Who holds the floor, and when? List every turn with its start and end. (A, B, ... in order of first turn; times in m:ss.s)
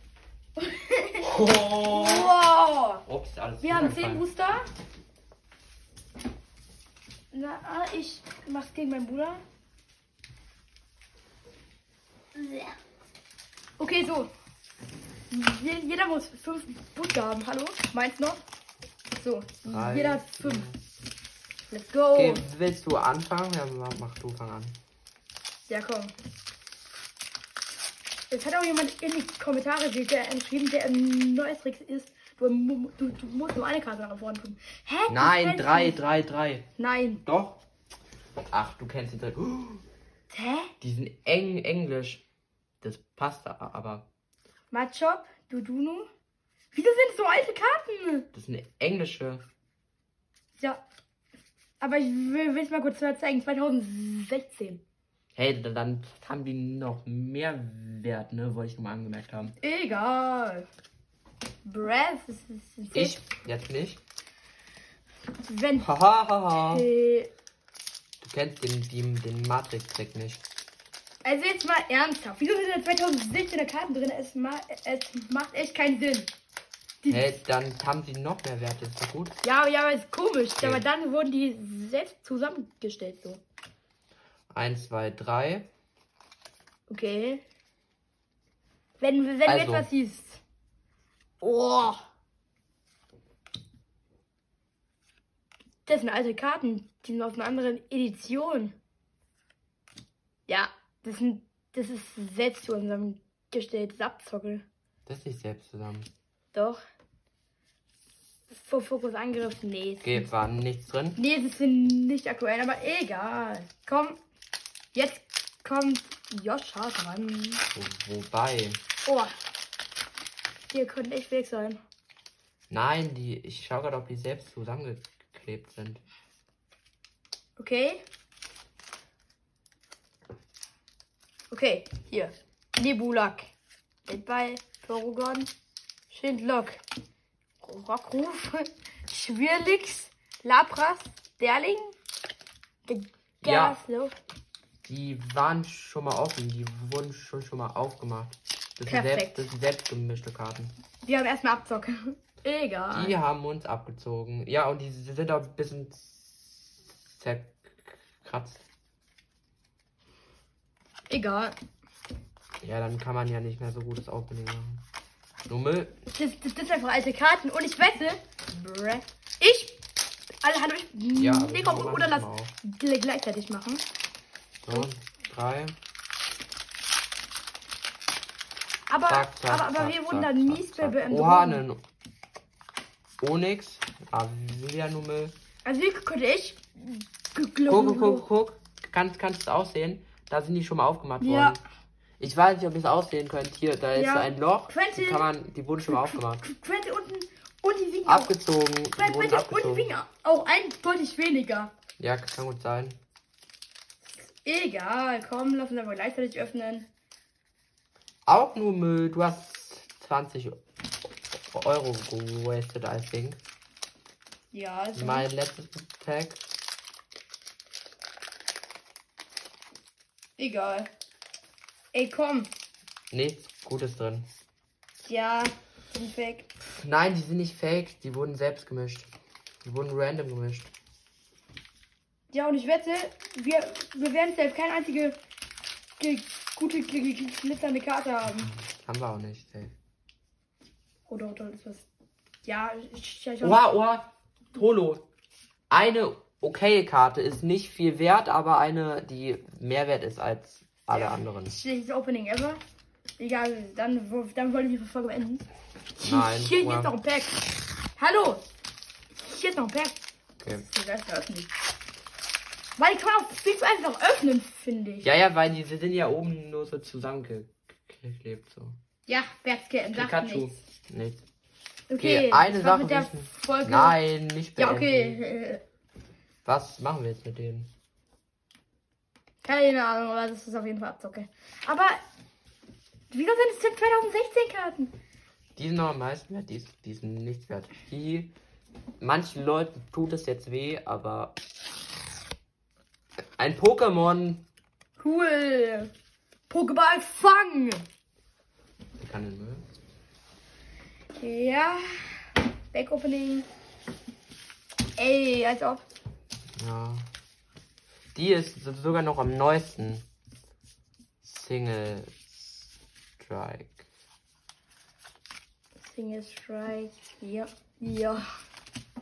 0:00.6-0:03.0 A
0:01.2-0:02.3 B
0:03.1-0:04.2 B
0:03.6-0:04.6 A
0:07.3-0:09.4 A
0:12.4-0:12.8 A
0:13.8-0:14.3 A
0:15.3-0:18.4 A
0:19.2-0:20.7 A
0:19.6-0:20.8 B
0:21.7-0:22.4 A
0:22.1-0:24.8 B
0:25.7-0:26.1 A
0:28.3-0:36.0 A
0:35.1-0:36.7 B
0:36.8-0:37.2 A
0:37.2-0:37.6 B
0:38.5-0:39.8 B
0:40.3-0:40.7 A
0:40.8-0:42.2 B
0:42.8-0:44.1 B
0:44.7-0:46.1 A
0:46.7-0:48.3 A
0:48.3-0:49.4 B
0:51.8-0:54.8 A
0:55.4-0:59.6 B
0:59.6-1:00.7 A
1:01.6-1:03.2 A
1:02.9-1:04.0 B
1:05.4-1:05.9 A
1:05.8-1:06.9 B
1:06.6-1:07.3 A
1:08.2-1:10.4 B
1:11.2-1:16.3 A
1:17.0-1:17.3 A
1:17.1-1:19.4 B
1:19.4-1:23.4 A
1:20.6-1:20.8 B
1:24.5-1:25.7 B
1:26.9-1:27.4 A
1:29.0-1:30.4 A
1:29.4-1:29.9 B
1:31.4-1:32.0 A
1:35.9-1:38.8 A
1:40.5-1:44.6 A
1:45.1-1:46.1 B
1:46.5-1:46.8 A
1:48.5-1:50.3 A
1:50.0-1:51.2 B
1:51.2-1:54.2 A
1:54.9-1:57.6 A
1:57.7-1:58.8 B
1:59.0-1:59.3 A
2:00.7-2:01.8 A
2:02.7-2:06.0 B
2:07.6-2:08.0 A
2:11.5-2:13.5 A
2:14.1-2:15.5 A
2:16.1-2:16.8 A
2:17.6-2:22.0 A
2:22.9-2:24.2 A
2:23.4-2:23.8 B
2:24.8-2:30.7 B
2:28.9-2:29.4 A
2:31.0-2:33.2 A
2:32.9-2:38.7 B
2:41.1-2:41.6 A
2:42.6-2:44.8 B
2:45.5-2:46.0 B
2:46.1-2:49.8 A
2:50.4-2:53.8 A
2:51.2-2:52.5 B
2:54.6-2:55.8 B
2:58.9-3:01.6 A
2:59.1-3:01.8 B
3:03.2-3:05.4 B
3:05.6-3:08.2 A
3:07.7-3:11.6 B
3:11.2-3:11.6 A
3:12.2-3:16.4 B
3:14.0-3:15.3 A
3:15.8-3:18.3 A
3:18.1-3:19.9 B
3:19.0-3:21.7 A
3:22.0-3:23.0 B
3:24.0-3:26.9 A
3:28.3-3:30.6 B
3:31.3-3:33.4 B
3:34.5-3:35.3 A
3:35.0-3:36.4 B
3:40.4-3:40.9 A
3:41.9-3:42.5 A
3:43.1-3:44.3 B
3:45.0-3:46.5 A
3:46.6-3:49.1 B
3:49.6-3:50.7 B
3:52.3-3:55.2 A
3:56.0-3:58.5 A
3:58.3-3:59.7 B
4:01.1-4:01.9 A
4:02.4-4:03.6 A
4:03.4-4:05.0 B
4:05.7-4:11.6 B
4:10.9-4:12.6 A
4:13.2-4:17.4 A
4:16.0-4:16.9 B
4:18.0-4:18.4 A
4:19.2-4:20.0 A
4:20.4-4:20.7 B
4:20.5-4:21.5 A
4:22.8-4:25.1 A
4:25.0-4:28.8 B
4:29.1-4:30.5 A
4:29.9-4:31.2 B
4:31.9-4:34.0 A
4:32.0-4:35.2 B
4:34.6-4:35.6 A
4:36.4-4:37.7 B
4:39.4-4:42.0 A
4:43.1-4:44.9 A
4:45.6-4:48.3 B
4:49.0-4:51.4 B
4:53.4-4:54.4 B
4:55.0-4:55.9 A
4:56.5-4:57.8 A
4:59.0-4:59.6 B
5:01.2-5:03.5 A
5:05.0-5:05.9 A
5:06.6-5:07.1 B
5:08.1-5:10.1 B
5:11.2-5:13.8 B
5:15.8-5:18.2 A